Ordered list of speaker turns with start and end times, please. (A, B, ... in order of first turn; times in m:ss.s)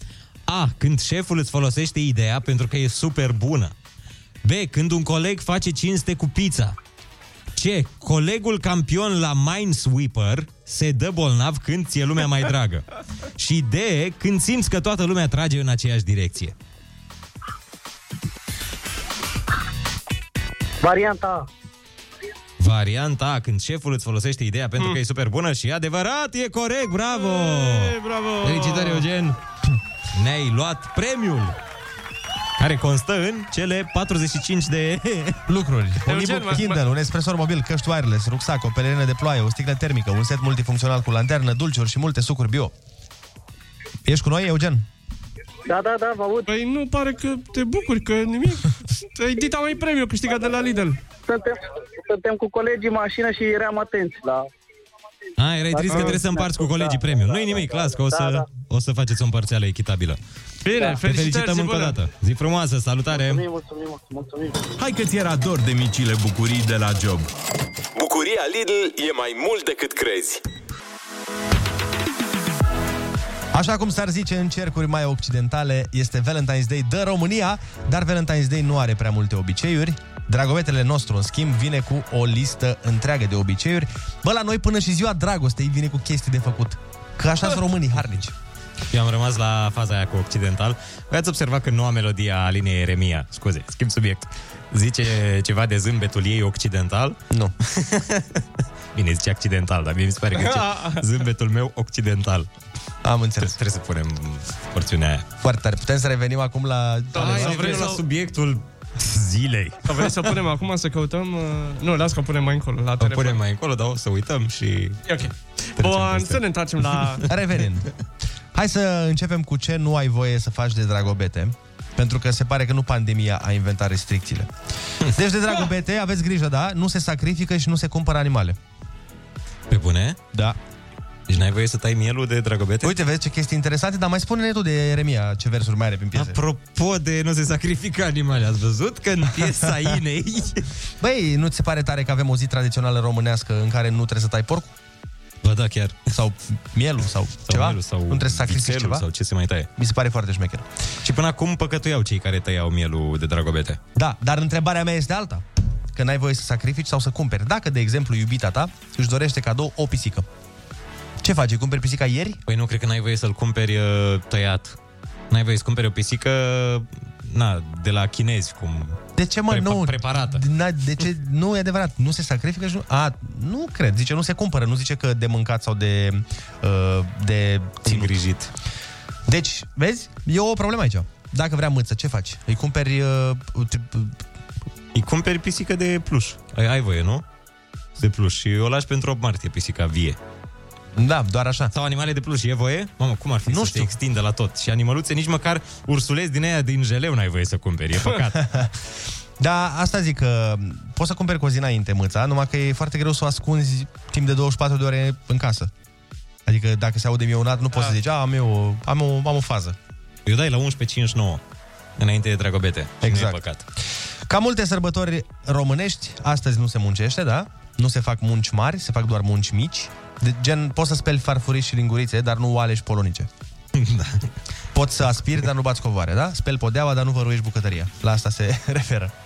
0:00.5-0:03.7 A
0:04.4-0:06.8 A
0:07.5-0:16.5 A
0:20.8-0:21.5 B
0:22.6-0:29.4 A
0:27.1-0:29.1 C
0:30.1-0:31.6 A
0:32.6-0:35.4 A
0:35.5-0:42.7 D
0:36.1-0:36.8 C
0:44.0-0:44.9 D
0:45.7-0:46.5 B
0:46.5-0:51.0 C
0:51.3-0:54.5 B
0:55.4-1:00.2 A
0:55.7-0:58.4 B
0:55.9-0:56.2 C
1:00.6-1:02.0 C
1:01.0-1:03.4 A
1:03.1-1:04.8 B
1:04.8-1:07.3 E
1:07.9-1:10.4 F
1:13.5-1:28.3 D
1:28.9-1:38.4 A
1:38.9-1:42.5 A
1:40.3-1:41.0 C
1:43.0-1:43.6 D
1:43.4-1:45.3 A
1:45.4-1:48.0 D
1:47.1-1:48.0 C
1:47.1-1:50.2 A
1:49.8-1:53.4 C
1:53.0-1:55.0 A
1:55.1-1:57.2 C
1:55.8-1:56.4 A
1:57.3-1:57.9 D
1:58.5-2:08.6 D
2:09.7-2:10.2 A
2:10.3-2:10.6 D
2:11.3-2:13.0 A
2:12.8-2:16.4 D
2:16.1-2:20.7 A
2:19.4-2:19.7 D
2:21.0-2:24.7 D
2:25.4-2:26.1 A
2:26.1-2:29.0 D
2:27.4-2:29.7 A
2:29.8-2:30.6 D
2:31.0-2:33.8 A
2:33.9-2:35.4 D
2:35.9-2:40.2 D
2:41.2-2:42.4 D
2:42.5-2:44.8 A
2:45.3-2:50.4 A
2:49.2-2:58.1 D
2:57.8-2:58.5 A
2:59.3-3:04.2 D
3:04.9-3:07.2 A
3:08.0-3:10.2 A
3:11.0-3:11.7 D
3:11.7-3:18.6 A
3:13.4-3:13.9 D
3:18.4-3:18.7 D
3:19.4-3:25.7 D
3:26.4-3:29.8 D
3:30.2-3:31.4 A
3:32.0-3:33.6 A
3:33.0-3:33.4 D
3:34.3-3:43.3 D
3:43.8-3:44.3 A
3:44.7-3:49.1 D